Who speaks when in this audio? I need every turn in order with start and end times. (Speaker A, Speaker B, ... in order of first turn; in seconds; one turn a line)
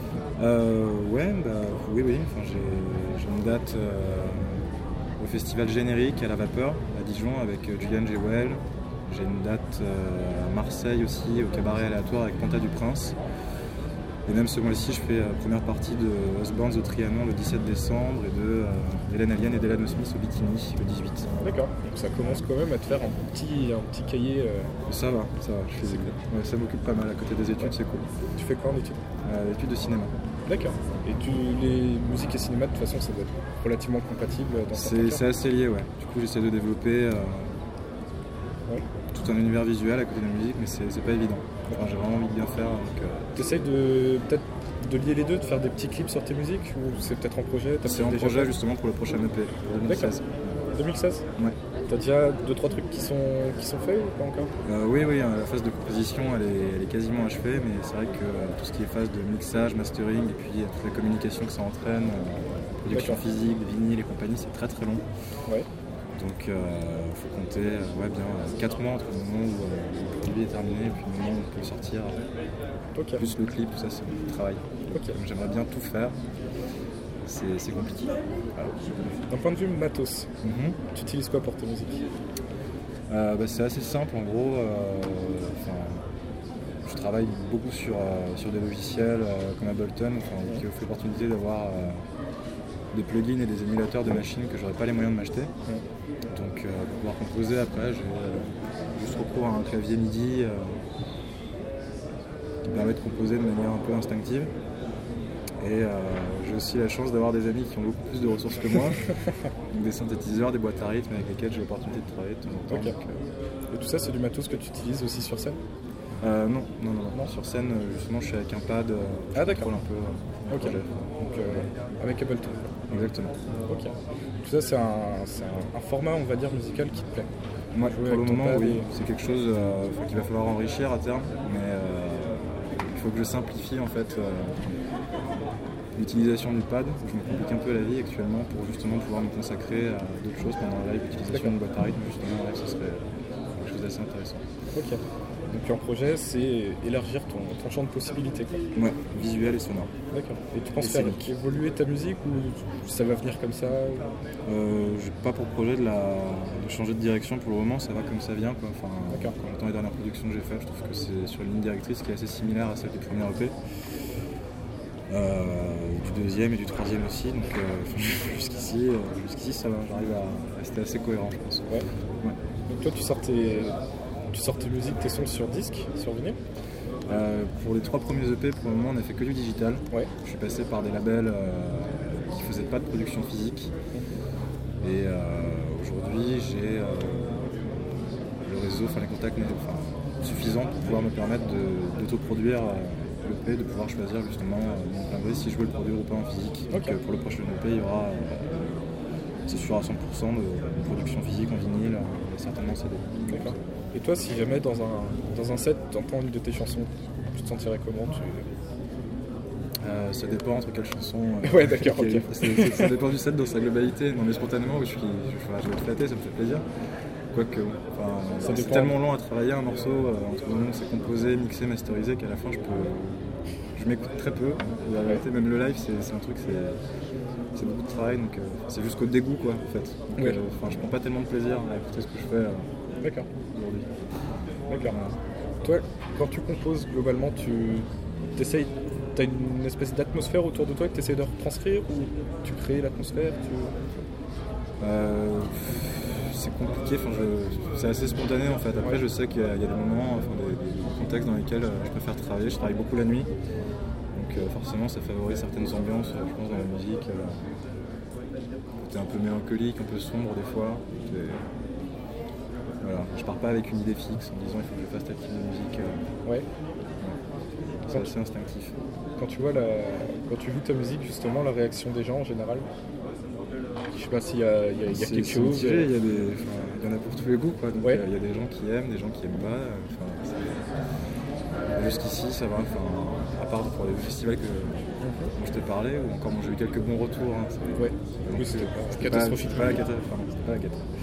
Speaker A: 0.4-13.2
Speaker A: 14.2-21.3
Speaker B: 21.4-24.7
Speaker A: 22.1-22.4
Speaker A: 24.9-28.1
Speaker B: 25.8-26.1
Speaker B: 28.3-29.0
Speaker A: 29.2-30.1
Speaker B: 30.4-35.2
Speaker A: 34.7-37.6
Speaker A: 39.1-43.5
Speaker B: 43.4-48.5
Speaker A: 47.8-50.6
Speaker B: 49.9-50.1
Speaker B: 50.7-51.2
Speaker B: 51.9-54.5
Speaker A: 54.6-65.0
Speaker B: 62.9-63.2
Speaker A: 66.2-72.3
Speaker B: 72.9-73.2
Speaker A: 73.2-76.2
Speaker B: 74.9-75.2
Speaker A: 77.2-79.1
Speaker B: 79.3-80.3
Speaker A: 80.4-80.8
Speaker B: 80.9-82.0
Speaker A: 83.1-86.0
Speaker A: 86.8-92.0
Speaker A: 92.9-95.5
Speaker A: 96.3-100.8
Speaker A: 102.7-104.5
Speaker A: 105.6-109.1
Speaker A: 109.7-113.3
Speaker B: 112.7-112.9
Speaker B: 113.7-115.6
Speaker A: 116.2-121.7
Speaker B: 119.3-119.7
Speaker B: 120.5-122.7
Speaker A: 122.9-123.4
Speaker B: 123.7-127.3
Speaker A: 127.7-134.7
Speaker B: 127.9-128.9
Speaker A: 135.9-144.4
Speaker B: 141.3-141.5
Speaker B: 144.7-148.6
Speaker A: 148.7-149.9
Speaker B: 150.1-154.2
Speaker A: 150.8-151.3
Speaker A: 154.4-163.5
Speaker B: 159.1-159.3
Speaker A: 165.1-172.3
Speaker B: 172.7-173.8
Speaker B: 174.3-176.4
Speaker A: 177.1-183.7
Speaker A: 184.8-187.8
Speaker A: 188.4-198.8
Speaker B: 196.7-197.0
Speaker A: 199.5-203.6
Speaker B: 203.3-208.5
Speaker A: 209.8-216.6
Speaker B: 211.4-213.0
Speaker A: 217.3-226.8
Speaker B: 218.4-219.0
Speaker A: 227.5-232.7
Speaker B: 233.0-233.3
Speaker A: 233.5-233.9
Speaker B: 234.7-234.9
Speaker A: 234.9-235.2
Speaker B: 235.6-243.7
Speaker A: 244.8-253.3
Speaker A: 254.1-257.5
Speaker A: 258.8-261.5
Speaker A: 262.8-266.1
Speaker A: 267.8-268.8
Speaker B: 269.2-272.7
Speaker B: 273.9-275.9
Speaker A: 274.9-280.5
Speaker B: 277.8-278.1
Speaker A: 281.7-290.8
Speaker B: 285.0-285.3
Speaker B: 287.8-289.8